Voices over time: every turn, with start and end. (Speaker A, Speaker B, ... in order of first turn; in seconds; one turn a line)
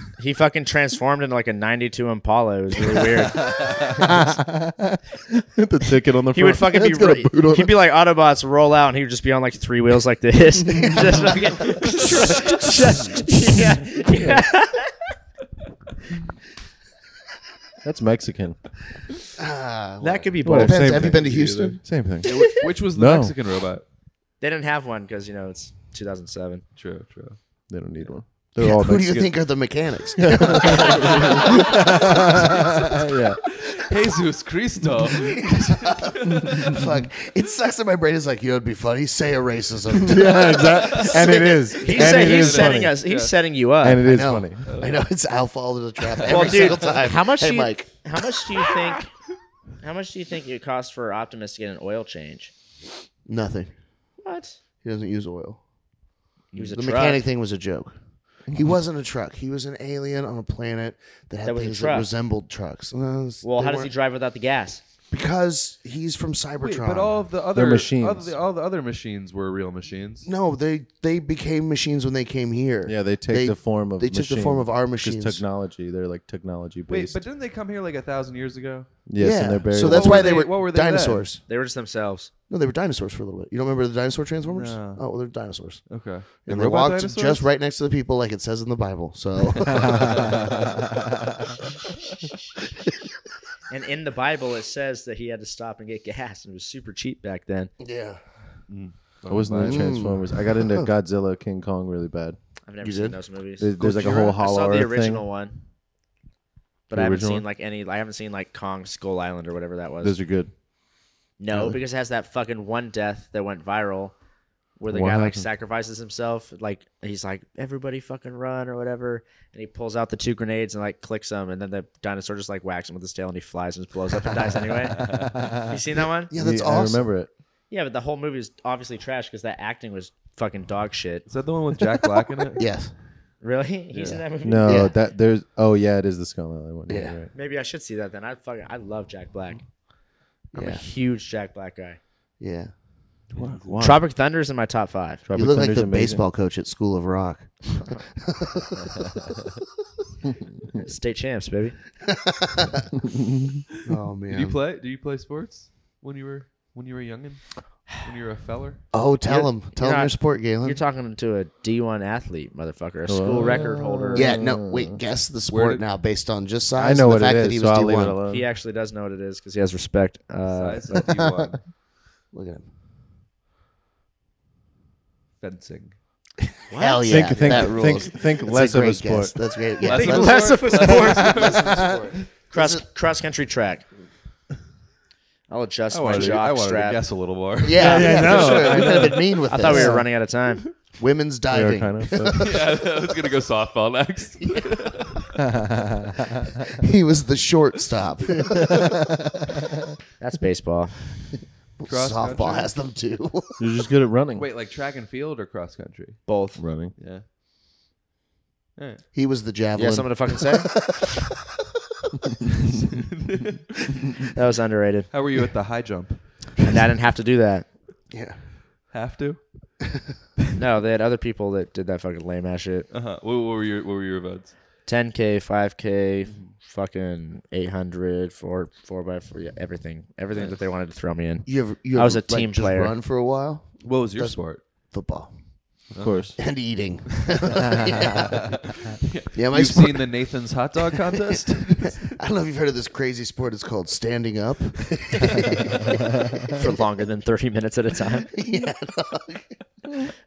Speaker A: 0.2-3.7
Speaker B: 2.8-7.8
Speaker C: 3.3-4.0
Speaker A: 6.3-14.9
Speaker B: 10.8-11.3
Speaker D: 10.8-13.2
Speaker C: 11.9-12.6
Speaker B: 14.1-14.4
Speaker B: 17.8-18.6
Speaker D: 19.4-21.8
Speaker A: 20.0-21.1
Speaker B: 20.4-23.3
Speaker C: 21.1-23.8
Speaker A: 24.4-26.6
Speaker C: 26.8-27.4
Speaker B: 27.7-29.4
Speaker D: 28.6-32.8
Speaker B: 30.2-33.4
Speaker C: 33.5-36.8
Speaker D: 35.1-42.2
Speaker B: 36.4-36.9
Speaker B: 40.0-42.9
Speaker C: 40.4-43.3
Speaker A: 41.8-44.0
Speaker B: 43.8-44.6
Speaker D: 44.0-47.9
Speaker C: 44.6-45.0
Speaker A: 46.3-49.1
Speaker C: 46.3-46.7
Speaker A: 49.8-52.5
Speaker D: 53.2-53.7
Speaker A: 54.2-54.5
Speaker D: 54.8-55.6
Speaker A: 56.5-57.2
Speaker D: 56.5-57.9
Speaker B: 58.5-58.7
Speaker D: 58.5-63.9
Speaker A: 61.4-62.1
Speaker A: 63.4-64.8
Speaker D: 65.1-67.2
Speaker C: 66.6-70.3
Speaker B: 67.5-68.3
Speaker D: 70.2-75.4
Speaker B: 72.8-77.2
Speaker C: 76.9-78.9
Speaker B: 79.1-80.3
Speaker D: 79.2-81.4
Speaker C: 79.7-81.3
Speaker A: 81.5-82.3
Speaker D: 82.5-85.8
Speaker C: 84.4-85.0
Speaker C: 85.9-87.5
Speaker D: 86.4-90.5
Speaker C: 89.7-90.5
Speaker B: 89.8-90.3
Speaker A: 93.7-97.7
Speaker D: 97.8-98.2
Speaker C: 98.7-99.9
Speaker B: 99.3-102.4
Speaker D: 99.6-100.9
Speaker A: 102.7-105.6
Speaker D: 102.8-103.2
Speaker B: 103.6-105.2
Speaker B: 106.9-107.4
Speaker A: 106.9-110.1
Speaker B: 110.0-110.5
Speaker A: 111.4-114.1
Speaker A: 114.8-126.3
Speaker B: 114.9-115.5
Speaker C: 125.0-125.3
Speaker B: 125.2-125.6
Speaker D: 126.3-127.0
Speaker B: 126.3-127.3
Speaker A: 127.7-131.2
Speaker C: 131.3-132.7
Speaker D: 132.5-132.9
Speaker A: 133.4-134.8
Speaker C: 133.9-134.2
Speaker B: 134.4-137.3
Speaker D: 134.6-134.9
Speaker D: 136.9-137.2
Speaker A: 137.3-139.6
Speaker D: 140.5-140.8
Speaker A: 140.5-142.0
Speaker D: 142.4-142.7
Speaker B: 143.3-144.0
Speaker A: 143.8-145.2
Speaker B: 145.2-146.2
Speaker D: 145.3-149.2
Speaker A: 150.8-151.8
Speaker D: 152.1-152.9
Speaker B: 153.0-153.6
Speaker D: 153.8-154.6
Speaker C: 154.3-158.8
Speaker D: 158.9-160.8
Speaker A: 159.2-164.3
Speaker B: 163.1-165.0
Speaker D: 164.1-168.2
Speaker C: 165.5-165.8
Speaker B: 166.7-168.4
Speaker A: 168.3-171.1
Speaker C: 170.5-171.6
Speaker D: 172.3-172.7
Speaker C: 175.4-175.9
Speaker A: 176.7-178.0
Speaker D: 176.7-182.8
Speaker B: 177.1-179.3
Speaker A: 179.8-181.5
Speaker C: 179.8-182.0
Speaker A: 182.5-183.8
Speaker A: 185.5-187.0
Speaker C: 185.9-189.4
Speaker D: 187.6-190.0
Speaker B: 187.7-190.0
Speaker A: 189.5-190.6
Speaker D: 191.0-192.7
Speaker B: 191.5-192.6
Speaker C: 192.4-195.3
Speaker B: 195.4-196.3
Speaker D: 196.7-199.1
Speaker B: 198.5-199.1
Speaker A: 200.2-200.9
Speaker D: 201.8-203.6
Speaker C: 201.8-202.7
Speaker B: 203.6-204.5
Speaker C: 204.3-206.2
Speaker A: 206.3-206.6
Speaker B: 206.6-206.9
Speaker C: 207.0-207.2
Speaker C: 208.8-209.0
Speaker D: 209.1-211.3
Speaker A: 209.7-210.7
Speaker C: 212.6-213.9
Speaker A: 214.3-215.1
Speaker C: 215.1-216.2
Speaker A: 216.6-217.7
Speaker D: 218.1-218.4
Speaker C: 218.9-219.4
Speaker A: 220.6-222.9
Speaker C: 222.9-224.5
Speaker A: 224.8-232.9
Speaker D: 231.4-234.4
Speaker C: 233.8-234.6
Speaker D: 234.9-235.3
Speaker C: 235.9-236.2
Speaker B: 235.9-236.3
Speaker D: 236.4-238.5
Speaker C: 238.1-242.1
Speaker D: 239.3-240.1
Speaker D: 241.1-246.8
Speaker A: 246.5-248.3
Speaker D: 248.3-249.6